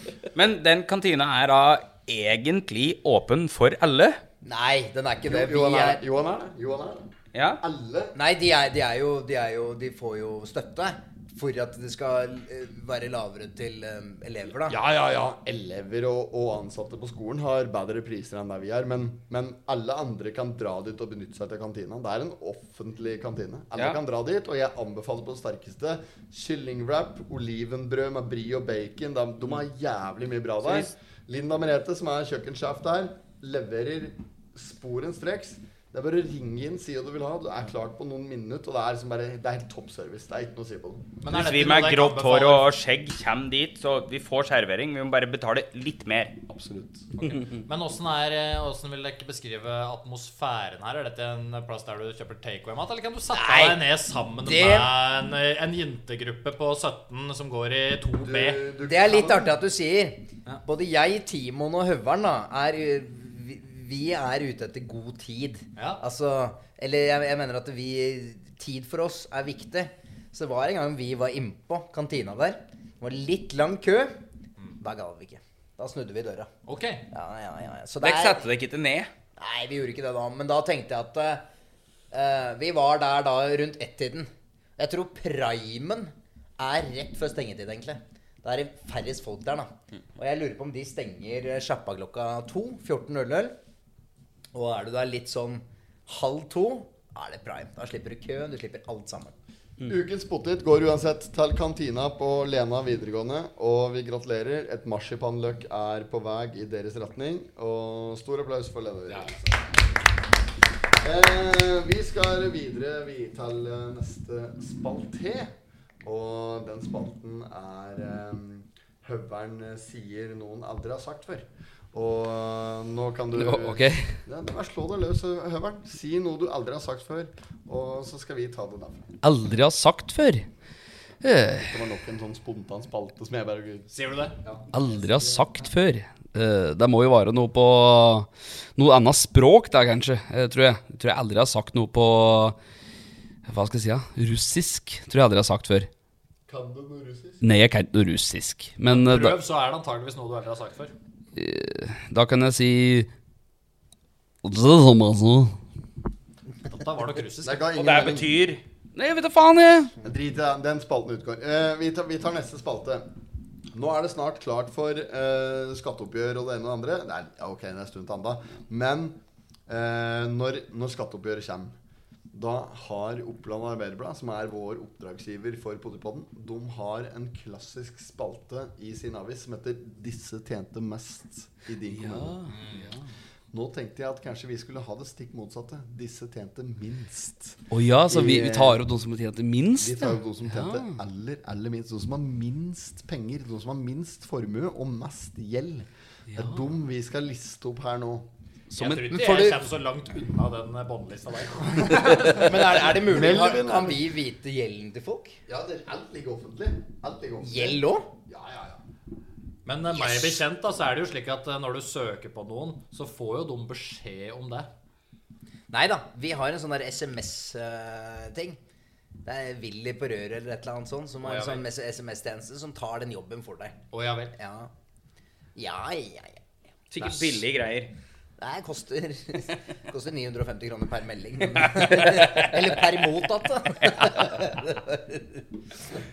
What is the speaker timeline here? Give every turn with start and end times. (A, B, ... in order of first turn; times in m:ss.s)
0:00.3-0:04.2 A
0:04.4-0:06.0 B
0:05.2-0:08.1 C
0:07.3-0:07.6 A
0:08.1-0:14.8 B
0:14.6-0:41.1 C
0:30.6-0:30.9 A
0:41.2-0:42.7 D
0:41.3-0:46.4 A
0:46.5-0:47.1 C
0:47.2-0:58.6 D
0:53.3-0:53.8 B
0:54.4-0:54.9 B
0:58.2-0:59.5 C
0:58.8-1:14.1 B
1:05.8-1:06.0 D
1:14.8-1:16.5 B
1:16.6-1:17.0 D
1:17.1-1:18.5 B
1:18.0-1:19.1 A
1:19.4-1:21.4 B
1:22.1-1:33.5 B
1:34.5-1:39.3 B
1:39.9-1:49.6 C
1:51.0-2:09.1 C
2:03.4-2:04.1 E
2:09.2-2:10.5 E
2:11.2-2:11.8 E
2:11.6-2:13.9 C
2:13.9-2:14.4 D
2:14.7-2:22.6 E
2:23.5-2:25.9 E
2:26.5-2:27.4 C
2:27.4-2:29.4 E
2:28.9-2:30.9 D
2:31.3-2:33.1 E
2:34.4-2:35.6 E
2:36.6-2:37.7 D
2:37.4-2:38.3 C
2:37.7-2:38.6 A
2:38.9-2:39.9 E
2:40.0-2:43.0 C
2:43.7-2:49.2 C
2:49.7-2:51.7 C
2:52.3-3:02.4 C
3:01.9-3:03.0 E
3:02.5-3:02.9 D
3:03.5-3:08.8 C
3:07.7-3:11.0 E
3:09.8-3:18.3 C
3:16.3-3:16.7 E
3:18.7-3:19.1 E
3:18.7-3:22.8 D
3:19.1-3:19.6 B
3:22.3-3:25.4 B
3:22.8-3:24.0 C
3:25.5-3:28.8 C
3:27.4-3:28.1 B
3:29.6-3:34.7 D
3:29.9-3:30.4 B
3:35.7-3:38.6 B
3:39.2-3:43.8 B
3:41.2-3:41.6 D
3:43.9-3:44.3 D
3:44.3-3:44.7 B
3:45.6-3:46.4 B
3:46.9-3:47.9 A
3:48.4-3:55.2 B
3:53.8-3:54.2 A